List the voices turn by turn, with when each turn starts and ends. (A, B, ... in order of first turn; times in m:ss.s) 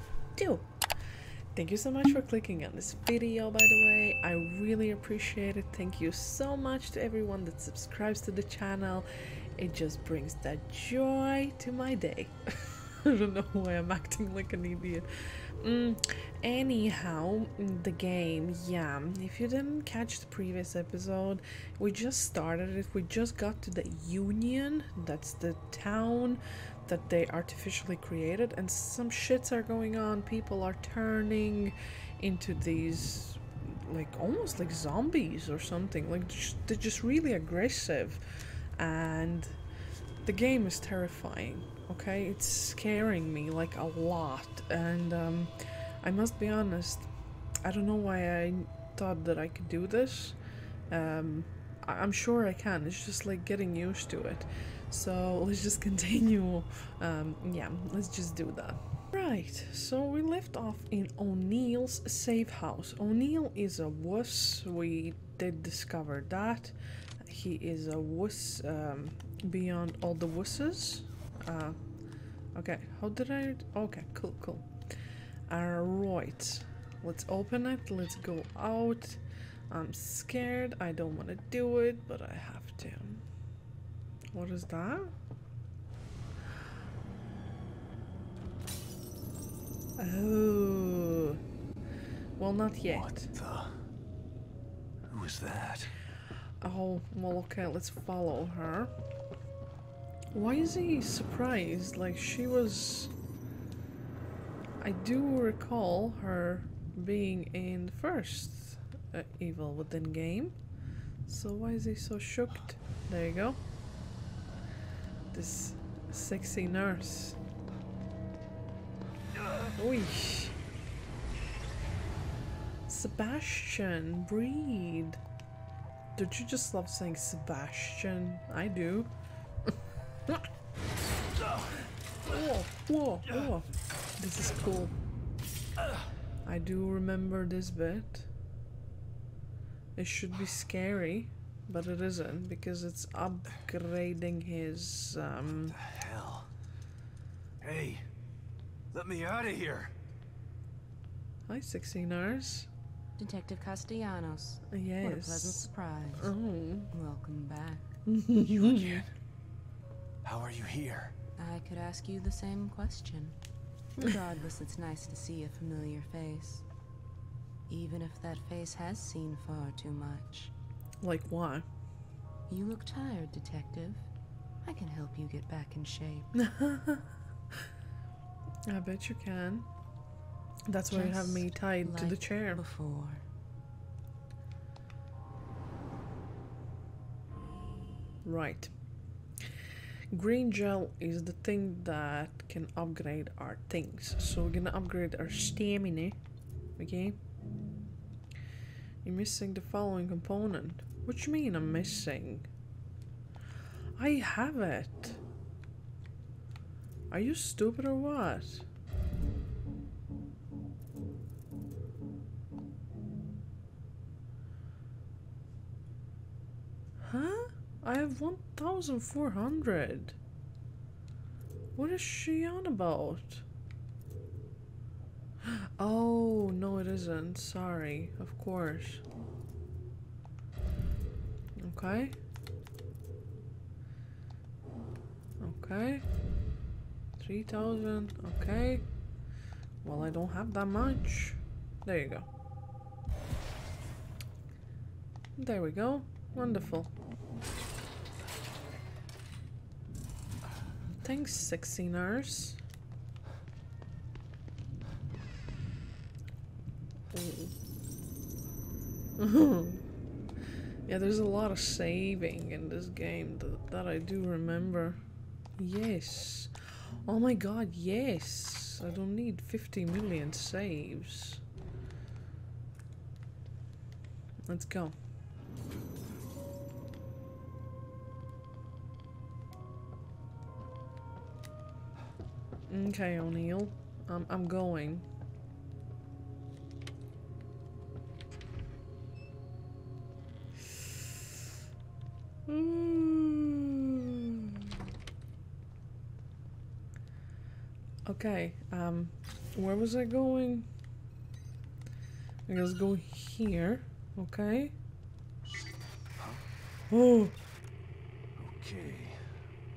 0:00.3-0:39.6 A
0:40.2-0:47.1 A
0:47.6-0:50.4 A
0:50.9-1:11.8 A
1:12.5-1:14.9 A
1:15.5-1:23.2 A
1:24.3-1:25.1 A
1:30.0-1:31.4 A
1:32.4-1:33.3 A
1:32.9-1:33.8 B
1:35.1-1:36.0 B
1:36.6-1:38.9 A
1:40.3-1:43.1 A
1:44.8-1:50.6 A
1:51.2-1:53.6 A
1:55.3-1:57.4 A
1:59.7-2:00.6 A
2:02.9-2:05.2 A
2:06.1-2:09.1 A
2:12.3-2:14.9 A
2:16.4-2:18.3 A
2:20.0-2:25.8 A
2:25.7-2:26.5 B
2:27.6-2:28.0 B
2:28.9-2:29.9 B
2:31.5-2:32.7 A
2:33.2-2:36.4 C
2:34.7-2:36.9 A
2:36.9-2:37.9 C
2:38.0-2:39.0 A
2:38.4-2:39.1 B
2:40.2-2:41.1 B
2:41.4-2:43.4 C
2:44.0-2:46.6 C
2:47.7-2:50.5 C
2:51.0-2:51.6 A
2:52.5-2:54.0 C
2:54.6-2:56.3 C
2:56.4-2:57.1 A
2:58.7-2:59.7 A
3:00.7-3:02.6 A
3:00.9-3:03.2 C
3:08.2-3:08.7 A
3:10.1-3:16.2 A
3:16.8-3:17.2 A
3:19.0-3:22.5 A
3:24.0-3:25.2 A
3:27.1-3:28.6 A
3:37.0-3:40.2 A
3:41.8-3:43.4 A
3:45.4-3:49.0 A
3:51.6-3:52.2 A
3:55.4-3:56.0 A
3:57.2-3:58.8 A
3:59.8-4:02.3 A
4:05.4-4:06.9 A
4:11.0-4:12.6 A
4:17.1-4:17.5 A
4:19.2-4:19.8 A
4:20.8-4:25.0 A
4:25.6-4:31.4 A
4:34.5-4:34.9 A
4:42.7-4:45.0 A
4:52.5-4:54.7 A
4:58.0-5:00.7 A
5:02.5-5:04.7 A
5:06.2-5:06.4 B
5:06.9-5:07.3 A
5:08.4-5:09.4 B